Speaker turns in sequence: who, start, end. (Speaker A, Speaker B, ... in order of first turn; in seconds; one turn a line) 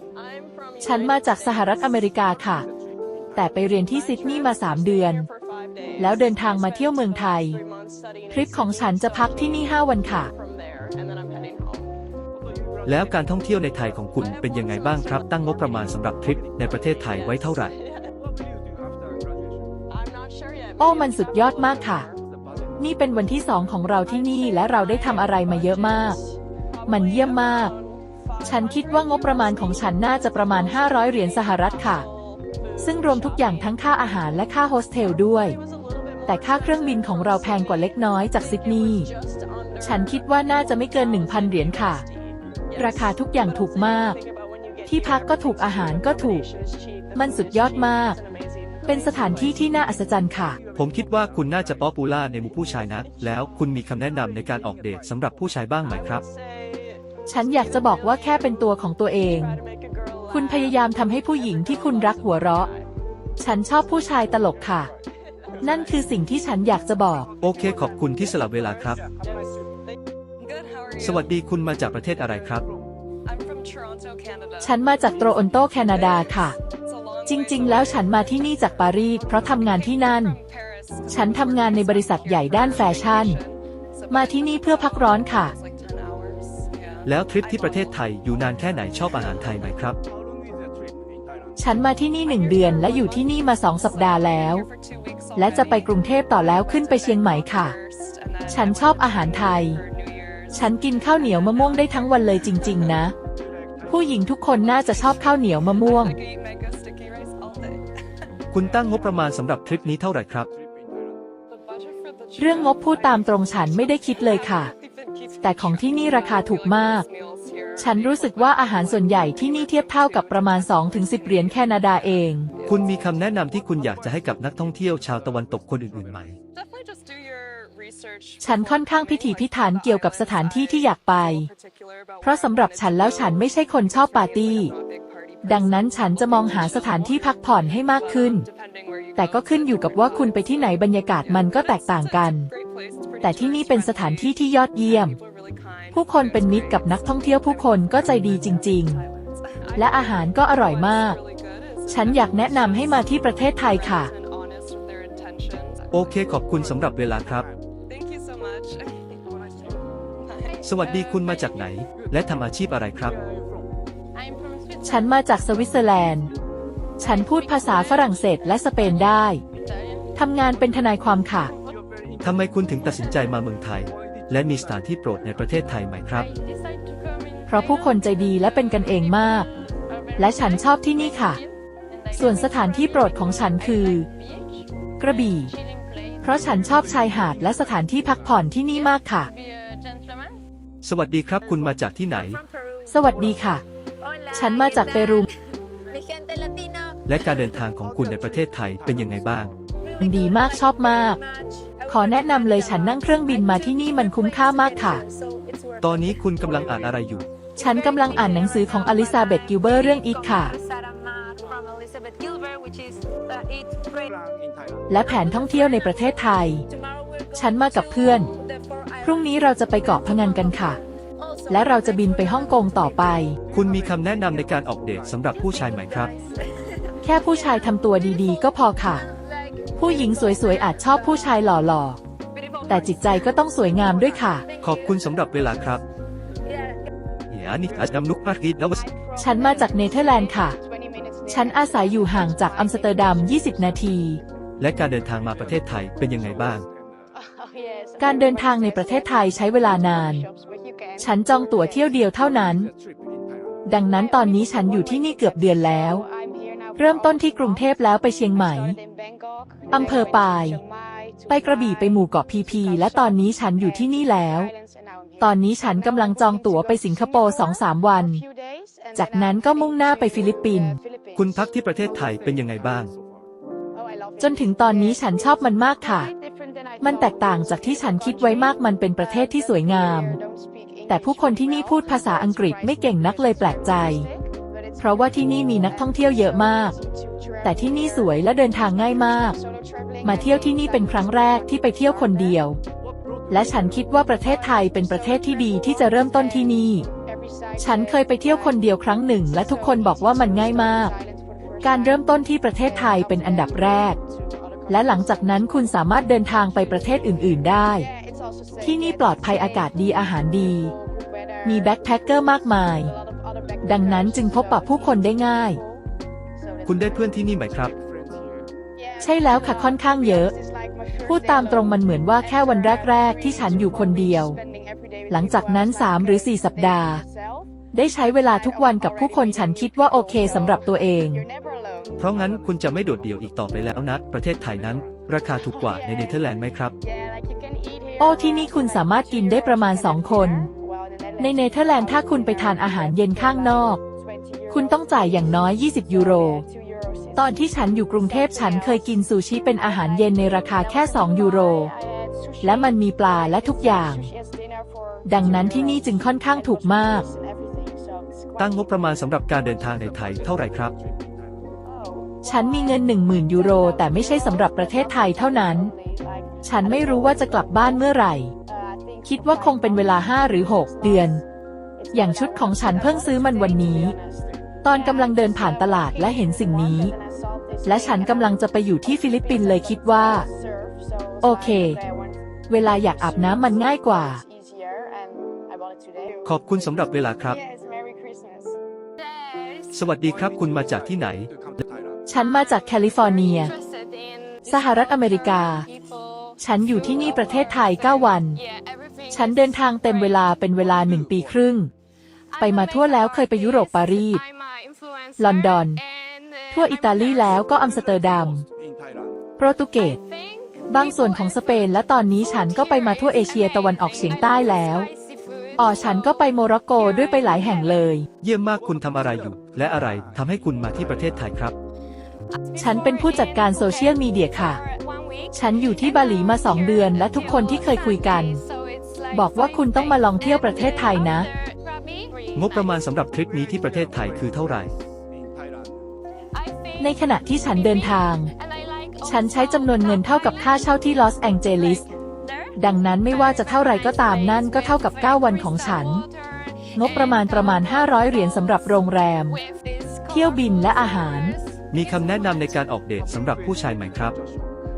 Speaker A: 0.8-2.7
Speaker A: 3.4-5.3
Speaker A: 6.0-7.6
Speaker A: 8.3-10.3
Speaker B: 12.9-17.7
Speaker A: 20.8-22.1
Speaker A: 22.8-26.2
Speaker A: 26.9-27.7
Speaker A: 28.4-32.1
Speaker A: 32.8-35.6
Speaker A: 36.3-39.1
Speaker A: 39.8-42.0
Speaker A: 42.8-44.2
Speaker A: 44.9-46.5
Speaker A: 47.1-48.2
Speaker A: 48.9-50.6
Speaker B: 50.8-56.2
Speaker A: 57.3-59.6
Speaker A: 60.3-62.7
Speaker A: 63.4-64.9
Speaker A: 65.6-67.3
Speaker B: 67.4-69.0
Speaker B: 71.0-72.7
Speaker A: 74.6-76.6
Speaker A: 77.3-80.4
Speaker A: 81.1-83.4
Speaker A: 84.1-85.5
Speaker B: 87.0-90.0
Speaker A: 91.6-94.7
Speaker A: 95.3-97.8
Speaker A: 98.5-99.8
Speaker A: 100.5-103.1
Speaker A: 103.9-106.2
Speaker B: 108.5-110.5
Speaker A: 112.4-114.7
Speaker A: 115.4-117.1
Speaker A: 117.8-122.5
Speaker B: 122.7-126.4
Speaker A: 128.4-131.5
Speaker A: 132.2-134.7
Speaker A: 135.4-138.5
Speaker A: 139.2-142.5
Speaker A: 143.2-145.2
Speaker A: 145.9-149.1
Speaker A: 149.8-151.2
Speaker A: 151.9-154.1
Speaker B: 155.9-157.5
Speaker B: 160.6-163.2
Speaker A: 164.8-166.3
Speaker A: 167.0-169.4
Speaker A: 170.2-171.5
Speaker B: 172.2-176.3
Speaker A: 177.5-179.5
Speaker A: 180.2-181.4
Speaker A: 182.2-184.1
Speaker A: 185.0-185.5
Speaker A: 186.2-189.3
Speaker B: 190.8-192.4
Speaker A: 192.9-193.6
Speaker A: 194.3-195.3
Speaker B: 197.1-199.5
Speaker A: 200.0-201.2
Speaker A: 201.9-205.0
Speaker B: 205.8-207.2
Speaker A: 207.6-210.6
Speaker A: 214.9-216.7
Speaker A: 217.3-218.3
Speaker A: 219.0-220.8
Speaker A: 221.5-223.4
Speaker B: 223.5-226.1
Speaker A: 227.0-229.1
Speaker A: 229.8-232.0
Speaker A: 232.7-234.4
Speaker B: 234.6-235.8
Speaker B: 237.3-238.8
Speaker A: 239.2-240.6
Speaker A: 241.3-244.2
Speaker B: 244.6-246.7
Speaker A: 248.0-250.3
Speaker A: 251.0-252.7
Speaker A: 253.7-256.1
Speaker A: 256.8-258.8
Speaker A: 259.7-260.6
Speaker A: 261.3-264.5
Speaker A: 265.2-268.2
Speaker A: 268.9-270.8
Speaker B: 271.1-272.9
Speaker A: 274.2-276.1
Speaker A: 276.8-280.2
Speaker A: 280.9-284.1
Speaker A: 284.8-286.8
Speaker A: 287.4-289.4
Speaker A: 290.0-292.6
Speaker A: 293.3-296.9
Speaker A: 297.6-300.9
Speaker A: 301.6-304.0
Speaker A: 304.7-307.9
Speaker A: 308.6-310.7
Speaker A: 311.4-312.9
Speaker A: 313.6-315.6
Speaker B: 316.6-317.7
Speaker A: 319.0-320.3
Speaker A: 321.1-324.4
Speaker A: 325.1-327.0
Speaker A: 327.7-331.3
Speaker B: 332.0-336.8
Speaker A: 338.0-340.5
Speaker A: 341.2-343.8
Speaker A: 344.5-346.4
Speaker A: 347.2-351.8
Speaker A: 352.4-354.1
Speaker A: 355.1-357.1
Speaker B: 358.4-360.7
Speaker A: 362.2-365.7
Speaker A: 366.4-368.3
Speaker A: 369.0-371.2
Speaker A: 371.9-374.0
Speaker A: 374.6-376.9
Speaker A: 377.6-380.3
Speaker A: 381.2-381.8
Speaker A: 382.5-384.2
Speaker B: 386.2-387.4
Speaker B: 389.7-391.3
Speaker A: 392.1-393.5
Speaker A: 394.5-395.7
Speaker A: 396.4-398.4
Speaker A: 399.1-401.7
Speaker A: 402.4-404.2
Speaker A: 405.2-405.8
Speaker A: 406.5-408.4
Speaker A: 409.4-410.0
Speaker A: 410.7-414.9
Speaker A: 415.6-418.1
Speaker B: 418.2-421.6
Speaker A: 422.6-424.6
Speaker A: 425.3-428.4
Speaker A: 429.1-431.3
Speaker B: 432.3-434.7
Speaker A: 436.8-438.3
Speaker A: 439.0-441.9
Speaker A: 442.6-446.1
Speaker A: 446.8-449.4
Speaker A: 450.1-451.4
Speaker B: 451.7-454.2